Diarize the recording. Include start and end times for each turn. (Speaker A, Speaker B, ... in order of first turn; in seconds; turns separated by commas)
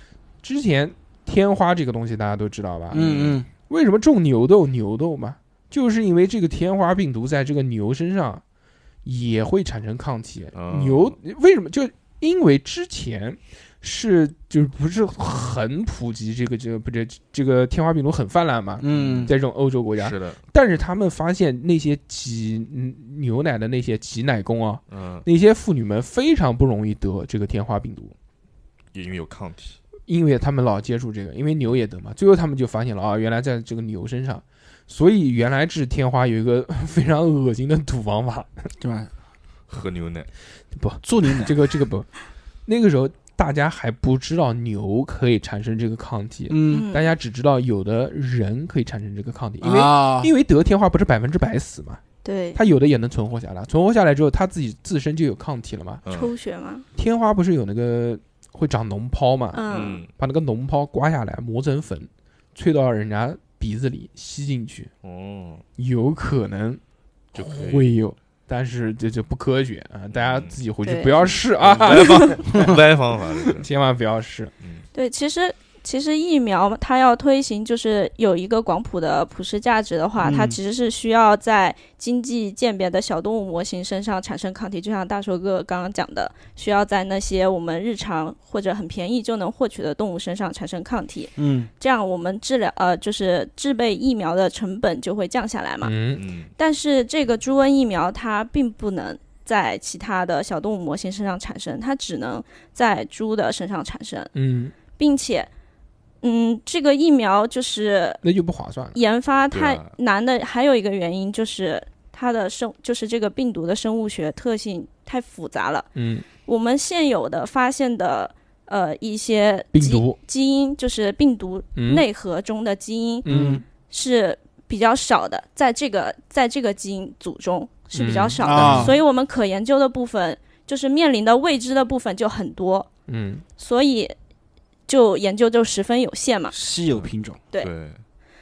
Speaker A: 0.4-8.4, Speaker B: 2.9-3.5, Speaker C: 2.9-3.4, Speaker A: 9.1-28.1, Speaker C: 10.5-11.2, Speaker B: 18.8-19.3, Speaker C: 18.9-19.4, Speaker C: 20.0-20.4, Speaker C: 24.9-25.3, Speaker C: 28.9-29.8, Speaker A: 30.1-38.7, Speaker B: 38.8-39.1, Speaker C: 39.7-40.3, Speaker A: 40.8-42.1, Speaker B: 41.0-41.5, Speaker A: 42.7-52.0, Speaker B: 46.5-46.9, Speaker D: 46.6-47.1, Speaker B: 49.6-50.3, Speaker D: 52.2-52.6, Speaker A: 52.5-56.0, Speaker C: 56.0-56.3, Speaker D: 56.1-56.9, Speaker A: 57.0-59.6, Speaker D: 59.5-60.0, Speaker C: 59.7-60.1, Speaker A: 60.1-64.9, Speaker C: 65.0-65.6, Speaker A: 65.8-66.8, Speaker A: 67.3-72.5, Speaker C: 67.3-67.9, Speaker C: 70.1-70.5, Speaker D: 70.8-71.1, Speaker C: 71.6-73.7, Speaker D: 71.9-72.4, Speaker B: 72.5-72.8, Speaker A: 73.5-74.5, Speaker D: 74.9-96.0, Speaker B: 80.2-80.6, Speaker B: 91.4-91.7, Speaker A: 95.8-96.2, Speaker C: 96.2-96.5, Speaker D: 96.6-104.3, Speaker A: 104.3-104.8, Speaker D: 104.9-105.5, Speaker D: 106.2-108.2, Speaker A: 108.2-109.0, Speaker D: 108.9-123.3, Speaker C: 109.5-110.0, Speaker A: 116.0-116.3, Speaker A: 119.7-120.2, Speaker A: 121.8-122.0, Speaker A: 123.2-123.6, Speaker B: 123.2-123.6, Speaker D: 123.8-132.9, Speaker A: 127.9-128.9, Speaker B: 128.4-129.0, Speaker A: 133.1-133.4, Speaker D: 133.6-134.2, Speaker D: 134.9-136.6, Speaker B: 136.5-137.4, Speaker C: 137.0-138.0